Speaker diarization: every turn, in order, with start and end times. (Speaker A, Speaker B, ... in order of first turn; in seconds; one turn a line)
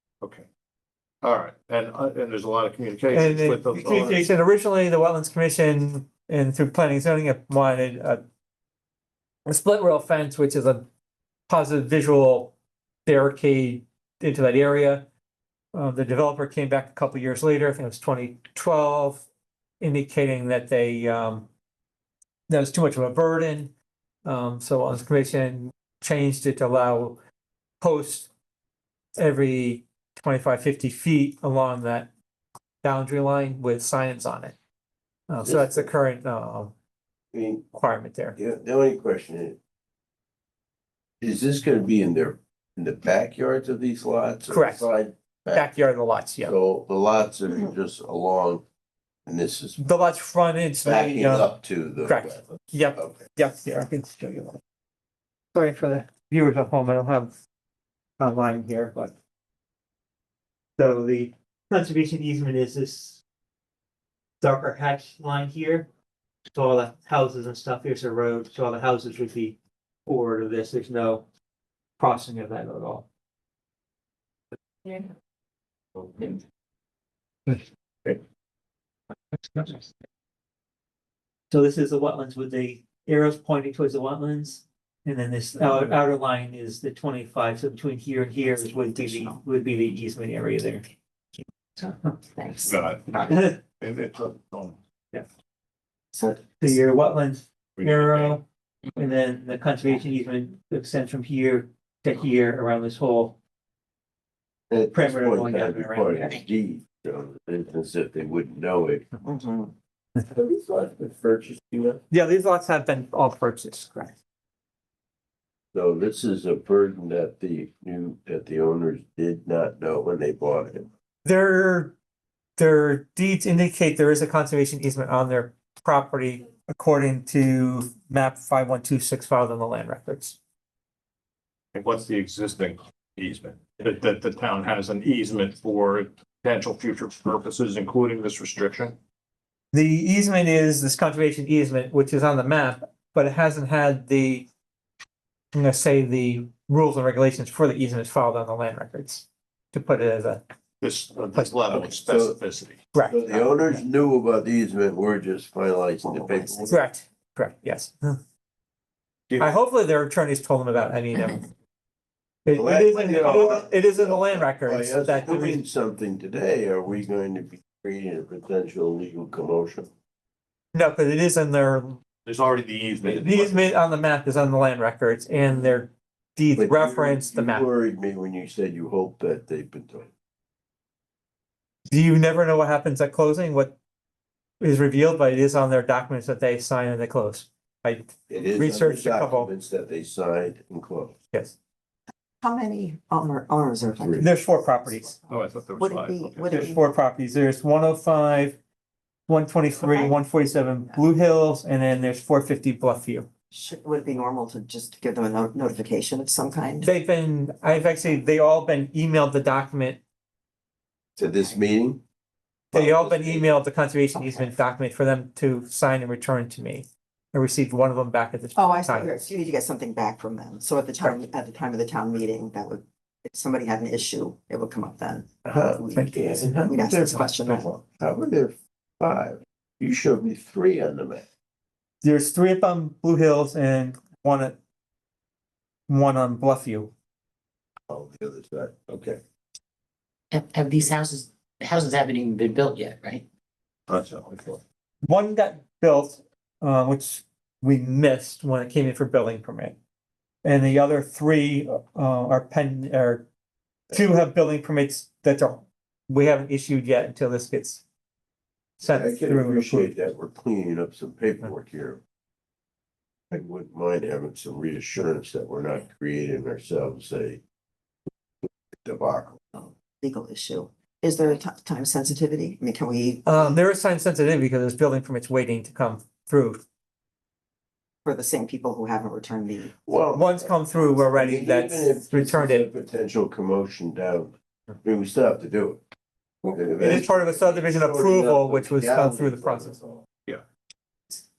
Speaker A: 0.2-0.5
Speaker A: 1.2-4.3
Speaker B: 3.1-8.2
Speaker C: 3.8-4.1
Speaker B: 9.4-10.9
Speaker B: 11.5-12.5
Speaker B: 13.1-15.1
Speaker B: 15.7-19.2
Speaker B: 19.8-21.5
Speaker B: 22.5-23.7
Speaker B: 24.2-27.2
Speaker B: 27.8-28.3
Speaker B: 29.2-32.1
Speaker B: 32.8-34.5
Speaker B: 35.3-36.7
Speaker C: 35.4-35.9
Speaker C: 37.3-37.7
Speaker B: 37.7-38.4
Speaker C: 38.4-39.6
Speaker C: 41.2-45.7
Speaker B: 44.5-44.9
Speaker B: 45.5-46.5
Speaker C: 46.4-48.6
Speaker C: 49.2-49.8
Speaker B: 49.8-54.6
Speaker C: 50.8-53.2
Speaker B: 55.5-57.3
Speaker B: 58.2-59.1
Speaker B: 60.8-63.2
Speaker B: 64.4-65.9
Speaker B: 66.5-71.2
Speaker B: 72.0-73.1
Speaker B: 77.5-78.1
Speaker B: 81.5-90.9
Speaker D: 88.7-89.4
Speaker B: 91.8-92.1
Speaker D: 92.2-93.2
Speaker A: 92.6-94.8
Speaker B: 93.2-93.6
Speaker D: 96.1-96.5
Speaker B: 96.2-98.4
Speaker A: 97.8-98.4
Speaker B: 99.0-103.4
Speaker C: 104.7-109.0
Speaker B: 104.9-106.4
Speaker D: 109.2-109.7
Speaker C: 110.3-112.0
Speaker B: 112.1-114.1
Speaker C: 115.7-120.9
Speaker B: 121.2-122.0
Speaker B: 122.6-130.4
Speaker A: 131.7-139.0
Speaker B: 139.7-144.5
Speaker B: 145.5-150.4
Speaker A: 150.8-152.8
Speaker C: 151.7-152.3
Speaker B: 152.9-153.2
Speaker C: 153.0-156.8
Speaker D: 156.2-156.5
Speaker B: 156.7-158.2
Speaker B: 159.4-161.5
Speaker B: 162.4-165.6
Speaker C: 162.5-169.9
Speaker B: 170.7-172.0
Speaker A: 172.2-173.8
Speaker B: 173.2-177.7
Speaker C: 176.6-180.1
Speaker B: 181.9-183.8
Speaker B: 184.6-189.5
Speaker C: 188.3-191.2
Speaker D: 192.4-196.8
Speaker C: 194.0-194.3
Speaker B: 194.2-195.2
Speaker A: 195.3-196.6
Speaker B: 196.5-198.6
Speaker B: 199.3-203.3
Speaker D: 199.8-200.2
Speaker D: 203.5-206.9
Speaker B: 206.8-210.0
Speaker D: 207.8-208.2
Speaker D: 211.2-211.6
Speaker C: 211.2-212.0
Speaker B: 212.7-219.2
Speaker C: 212.7-213.5
Speaker D: 214.1-214.5
Speaker D: 218.5-226.1
Speaker C: 225.4-231.2
Speaker B: 225.9-226.9
Speaker D: 226.7-227.7
Speaker B: 232.0-234.6
Speaker B: 235.9-236.9
Speaker C: 237.9-239.2
Speaker E: 240.3-243.3
Speaker C: 243.9-244.6
Speaker B: 245.0-249.8
Speaker B: 250.4-253.3
Speaker B: 253.9-257.8
Speaker B: 258.8-259.9
Speaker C: 258.9-262.0
Speaker C: 263.3-267.4
Speaker C: 268.8-269.4
Speaker D: 269.5-273.6
Speaker B: 273.2-276.6
Speaker D: 278.0-279.7
Speaker C: 279.8-285.8
Speaker B: 280.1-282.7
Speaker C: 286.4-290.1
Speaker B: 286.8-289.8